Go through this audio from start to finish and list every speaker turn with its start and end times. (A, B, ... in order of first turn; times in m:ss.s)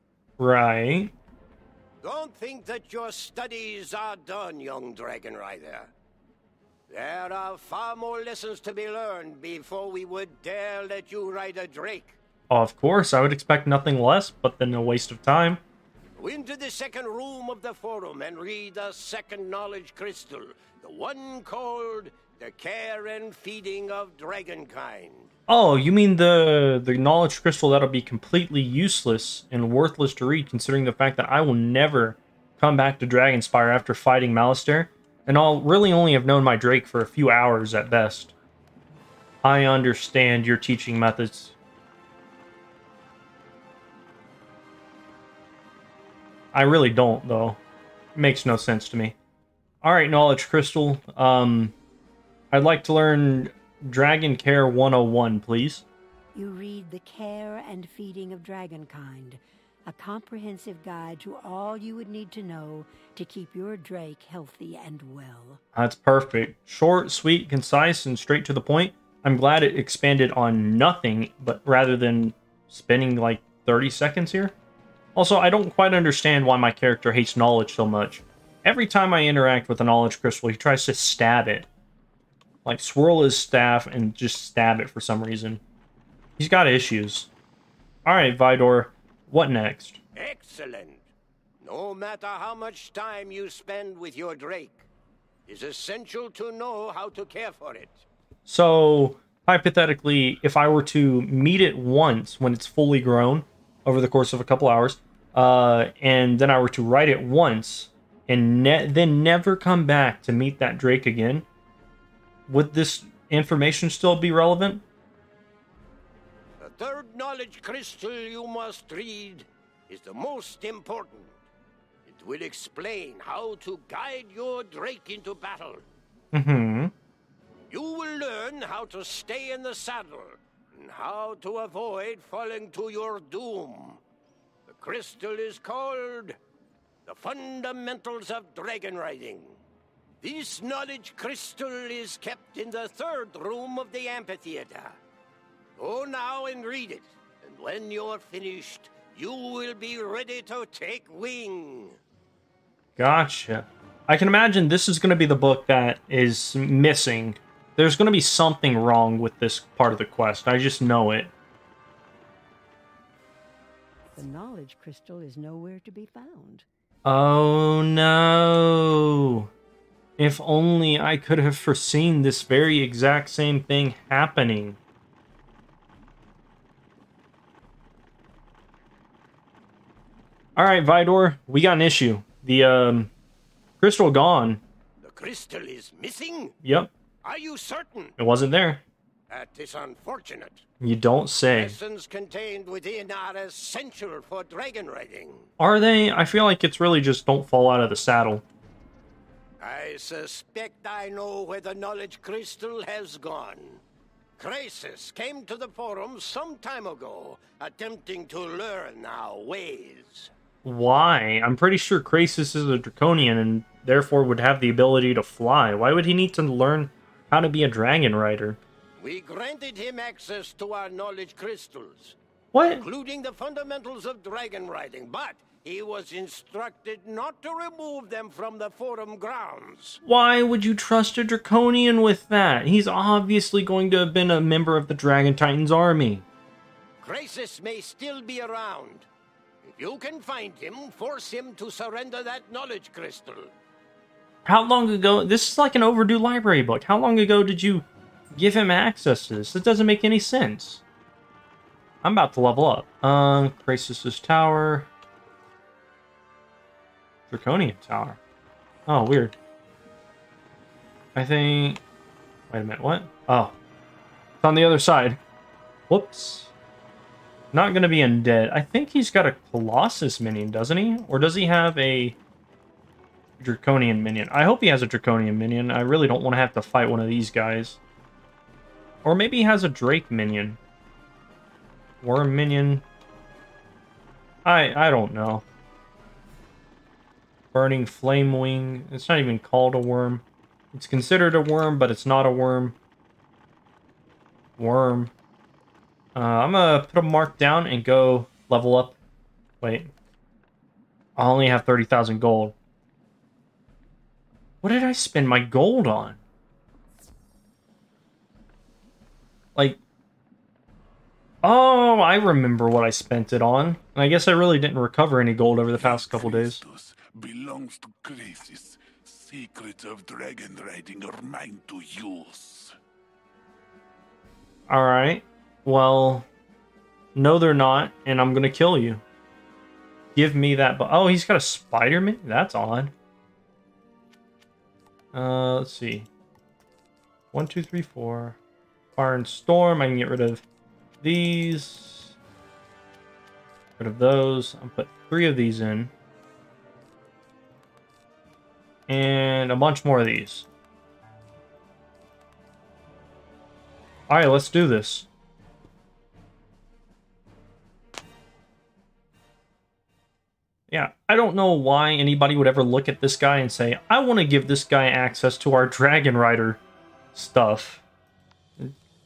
0:00.4-0:01.1 A
0:02.0-0:05.9 B
0:06.9-0:12.2 B
0:12.5-0:15.6 A
0:16.2-0:25.3 B
0:25.5-0:38.3 A
0:39.4-0:41.5 A
0:46.5-0:47.6 A
0:48.1-0:49.1 A
0:49.8-0:51.7 A
0:52.5-0:55.8 A
0:56.3-1:05.6 C
1:05.7-1:14.5 A
1:15.1-1:21.7 A
1:22.6-1:25.6 A
1:26.4-1:27.3 A
1:28.0-1:30.0 A
1:30.1-1:31.0 B
1:31.6-1:34.8 B
1:35.5-1:38.0 B
1:38.4-1:51.4 A
1:52.5-1:54.8 A
1:56.6-2:01.3 B
2:02.0-2:05.8 B
2:06.3-2:06.9 A
2:07.7-2:14.0 B
2:14.7-2:16.4 B
2:17.0-2:19.6 B
2:20.2-2:25.0 B
2:25.8-2:32.0 B
2:33.0-2:41.3 A
2:44.1-2:46.6 C
2:47.0-2:49.5 A
2:50.2-2:54.8 A
3:00.6-3:03.1 A
3:03.8-3:04.6 A
3:05.0-3:06.5 B
3:06.6-3:06.9 A
3:07.2-3:08.1 B
3:08.2-3:08.8 A
3:09.3-3:10.6 B
3:10.8-3:11.8 A
3:11.5-3:15.5 B
3:15.6-3:18.4 A
3:19.6-3:23.8 B
3:24.4-3:30.3 B
3:30.6-3:38.6 A
3:39.0-3:42.2 B
3:42.5-3:42.8 A
3:42.7-3:50.0 B
3:50.0-3:56.2 A
3:57.0-3:59.1 B
3:59.6-4:03.5 B
4:04.4-4:10.8 A
4:12.0-4:14.9 A
4:17.3-4:18.2 A
4:18.9-4:19.3 A
4:21.1-4:21.8 A
4:22.5-4:23.5 A
4:24.4-4:25.2 A
4:25.9-4:26.5 A
4:27.5-4:32.2 A
4:33.4-4:37.8 A
4:39.0-4:40.6 A
4:42.0-4:42.8 A
4:44.4-4:45.4 A
4:47.5-4:52.8 A
4:54.6-4:55.1 A
4:56.1-4:59.0 A
4:59.6-4:59.9 A
5:01.2-5:02.6 A
5:04.6-5:06.2 A
5:11.4-5:16.6 A
5:15.7-5:22.7 D
5:24.7-5:26.3 A
5:27.1-5:29.0 A
5:30.1-5:32.9 A
5:35.1-5:36.1 A
5:37.3-5:38.4 A
5:39.0-5:40.4 A
5:41.0-5:42.1 A
5:43.8-5:45.9 A
5:48.9-5:50.5 A
5:54.1-5:55.1 A
6:00.7-6:06.6 A
6:07.1-6:07.8 A